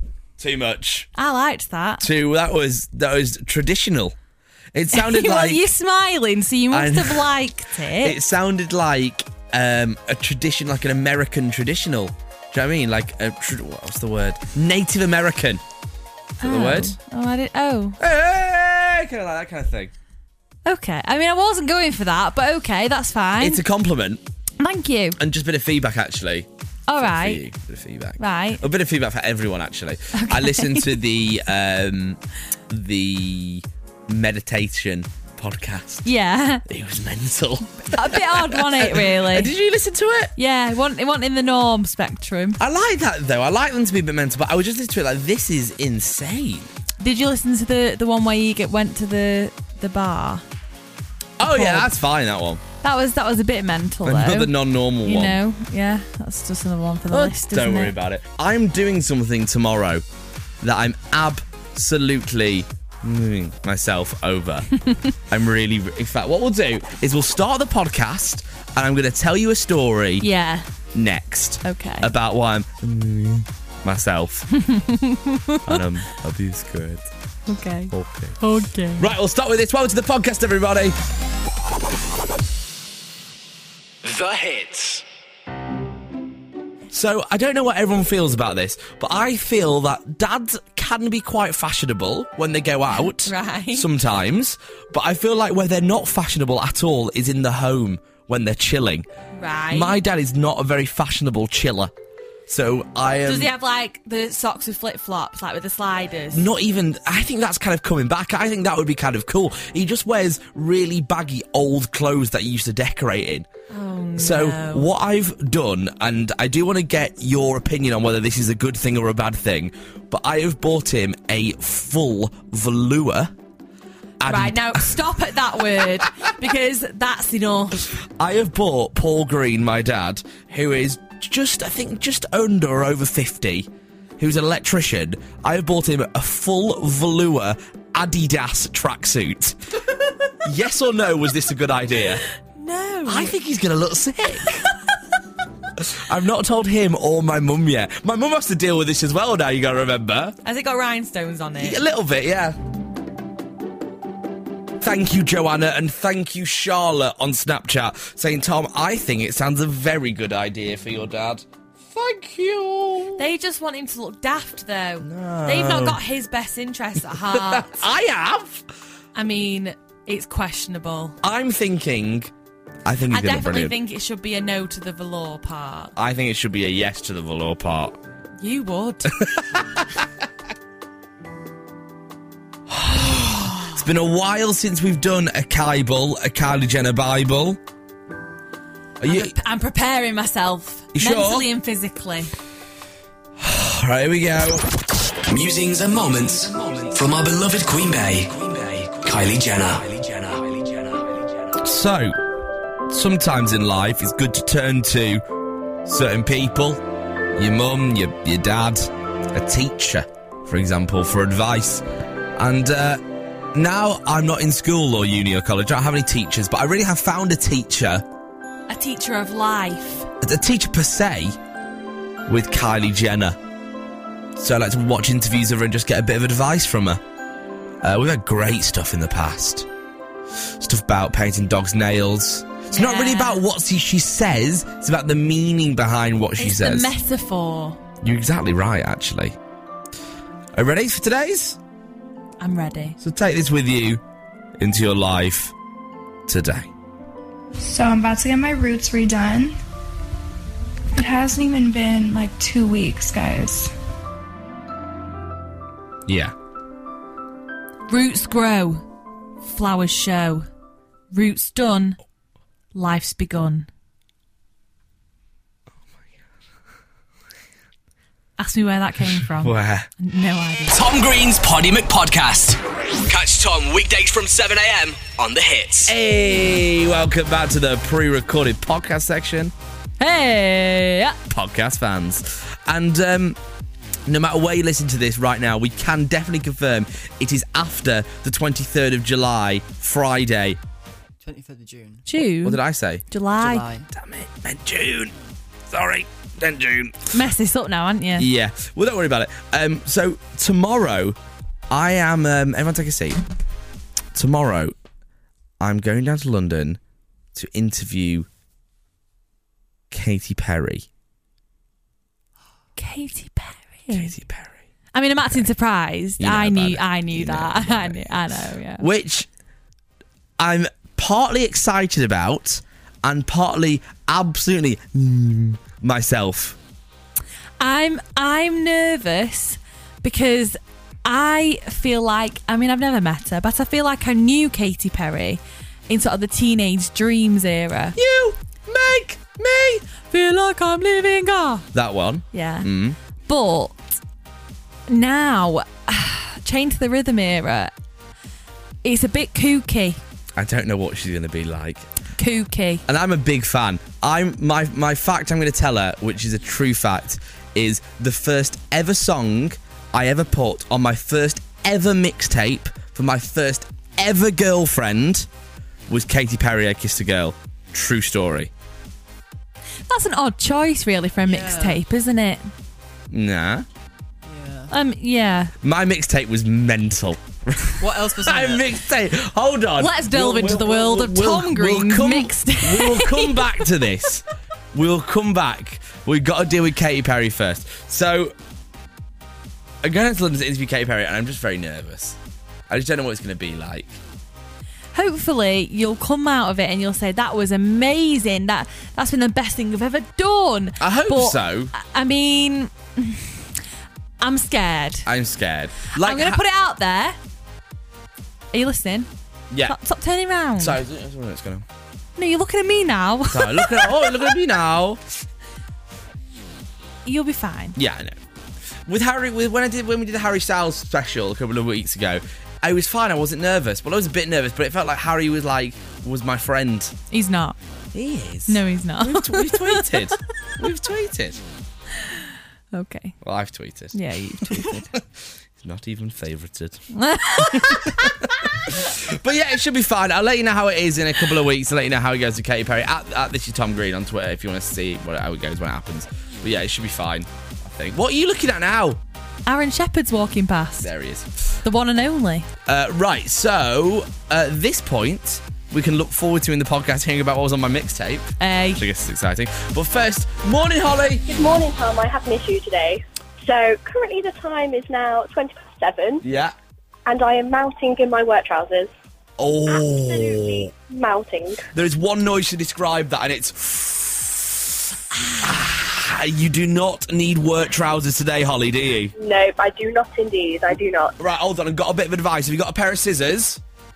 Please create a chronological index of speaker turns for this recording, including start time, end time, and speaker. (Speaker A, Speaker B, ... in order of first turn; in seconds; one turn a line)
Speaker A: 0.4-1.1
Speaker B: 1.1-2.0
Speaker A: 2.0-4.2
Speaker A: 4.7-5.7
Speaker B: 4.9-8.2
Speaker A: 6.7-7.3
Speaker A: 8.0-15.6
Speaker B: 16.4-18.0
Speaker A: 16.4-17.0
Speaker A: 18.0-19.9
Speaker B: 20.6-23.6
Speaker A: 23.4-24.2
Speaker B: 24.6-25.2
Speaker A: 25.2-26.5
Speaker B: 26.9-27.4
Speaker A: 27.0-36.0
Speaker B: 28.2-28.6
Speaker B: 30.1-31.0
Speaker B: 36.0-36.6
Speaker A: 36.7-40.3
Speaker B: 37.9-39.5
Speaker B: 40.4-42.6
Speaker A: 42.6-46.7
Speaker B: 47.0-50.4
Speaker A: 51.4-52.6
Speaker B: 51.4-51.9
Speaker B: 52.8-54.5
Speaker A: 54.0-55.4
Speaker B: 55.0-57.9
Speaker A: 57.1-60.0
Speaker A: 60.6-64.7
Speaker A: 65.3-70.2
Speaker B: 70.2-70.7
Speaker A: 70.9-74.5
Speaker B: 71.6-72.1
Speaker B: 74.5-75.8
Speaker A: 75.7-77.0
Speaker B: 77.5-79.0
Speaker A: 77.9-78.4
Speaker A: 79.0-80.9
Speaker C: 84.0-85.0
Speaker A: 86.9-99.1
Speaker B: 93.2-93.9
Speaker B: 99.3-100.0
Speaker A: 99.7-101.9
Speaker A: 102.5-103.5
Speaker B: 103.2-106.5
Speaker A: 106.3-113.5
Speaker B: 113.7-114.9
Speaker A: 114.2-123.3
Speaker A: 124.2-125.0
Speaker B: 124.2-127.8
Speaker A: 128.2-133.7
Speaker A: 134.2-139.6
Speaker A: 140.4-142.2
Speaker B: 142.6-143.3
Speaker A: 143.1-144.7
Speaker A: 145.8-150.3
Speaker B: 150.4-151.8
Speaker A: 151.6-152.6
Speaker A: 154.8-163.3
Speaker B: 163.2-167.8
Speaker A: 165.0-166.0
Speaker A: 167.3-168.6
Speaker B: 169.2-171.2
Speaker A: 171.2-172.3
Speaker A: 172.8-173.7
Speaker B: 173.1-175.9
Speaker A: 175.9-178.0
Speaker B: 178.4-179.3
Speaker A: 179.2-179.6
Speaker A: 182.7-187.6
Speaker B: 183.3-183.6
Speaker A: 189.0-189.3
Speaker B: 189.0-192.3
Speaker A: 190.9-191.5
Speaker A: 193.4-194.7
Speaker C: 195.3-201.1
Speaker A: 201.6-202.2
Speaker A: 202.9-205.2
Speaker A: 205.9-206.8
Speaker A: 207.4-211.8
Speaker A: 212.4-213.0
Speaker A: 213.5-218.0
Speaker B: 218.7-220.1
Speaker A: 220.2-221.4
Speaker A: 222.3-223.4
Speaker A: 224.3-227.0
Speaker A: 227.8-229.7
Speaker A: 230.6-236.9
Speaker B: 232.7-233.4
Speaker B: 236.4-237.8
Speaker A: 238.0-239.3
Speaker A: 240.5-241.6
Speaker B: 242.4-243.0
Speaker A: 243.0-244.0
Speaker A: 244.6-245.5
Speaker A: 246.3-246.7
Speaker D: 247.6-249.6
Speaker D: 250.9-253.7
Speaker A: 256.1-256.3
Speaker B: 257.9-258.8
Speaker B: 259.4-260.4
Speaker B: 261.1-262.0
Speaker B: 262.7-263.7
Speaker B: 268.4-270.7
Speaker A: 269.4-269.9
Speaker C: 270.7-275.9
Speaker A: 275.9-279.5
Speaker B: 280.0-281.1
Speaker A: 281.3-283.4
Speaker A: 284.1-290.6
Speaker E: 291.2-292.0
Speaker B: 292.0-292.6
Speaker A: 292.4-293.0
Speaker B: 293.1-293.6
Speaker E: 293.4-293.9
Speaker A: 293.9-295.1
Speaker A: 295.7-297.1
Speaker B: 297.1-298.3
Speaker A: 298.2-301.1
Speaker A: 301.7-303.2
Speaker A: 304.1-304.7
Speaker A: 305.6-306.8
Speaker A: 307.3-308.3
Speaker A: 309.9-310.8
Speaker B: 312.8-314.1
Speaker A: 313.9-314.6
Speaker B: 314.9-318.9
Speaker A: 316.2-319.3
Speaker A: 320.4-326.6
Speaker B: 327.6-338.0
Speaker A: 337.9-339.8
Speaker B: 340.1-341.6
Speaker A: 341.7-343.0
Speaker B: 342.3-342.7
Speaker B: 343.2-343.8
Speaker B: 344.9-347.7
Speaker B: 348.8-350.0
Speaker A: 350.4-351.9
Speaker B: 352.1-352.8
Speaker A: 352.9-365.3
Speaker A: 365.9-368.5
Speaker B: 369.9-372.5
Speaker E: 371.2-371.8
Speaker A: 373.1-373.6
Speaker E: 374.2-374.7
Speaker B: 374.7-375.5
Speaker A: 375.6-388.3
Speaker E: 377.8-378.7
Speaker B: 379.8-383.6
Speaker A: 389.8-392.1
Speaker A: 392.7-394.0
Speaker B: 394.9-403.4
Speaker A: 400.8-401.7
Speaker B: 404.2-405.1
Speaker A: 405.1-406.4
Speaker B: 405.9-407.2
Speaker B: 408.5-409.1
Speaker B: 409.6-410.8
Speaker A: 410.6-411.6
Speaker B: 412.2-414.3
Speaker A: 413.3-415.0
Speaker B: 417.1-417.8
Speaker A: 417.8-418.2
Speaker A: 418.9-426.9
Speaker B: 427.1-427.6
Speaker A: 427.9-431.4
Speaker B: 428.5-430.1
Speaker B: 432.7-433.1
Speaker A: 433.2-433.9
Speaker B: 433.9-434.9
Speaker A: 434.5-435.0
Speaker A: 435.6-436.8
Speaker B: 436.9-438.2
Speaker A: 437.4-449.0
Speaker B: 449.5-450.9
Speaker A: 450.8-451.3
Speaker B: 451.6-452.5
Speaker A: 452.7-461.2
Speaker B: 458.4-458.8
Speaker F: 461.3-466.2
Speaker A: 466.2-466.5
Speaker F: 467.1-468.9
Speaker A: 469.4-470.7
Speaker F: 469.7-471.6
Speaker A: 471.7-474.7
Speaker A: 475.3-479.1
Speaker F: 479.2-481.1
Speaker A: 481.2-483.6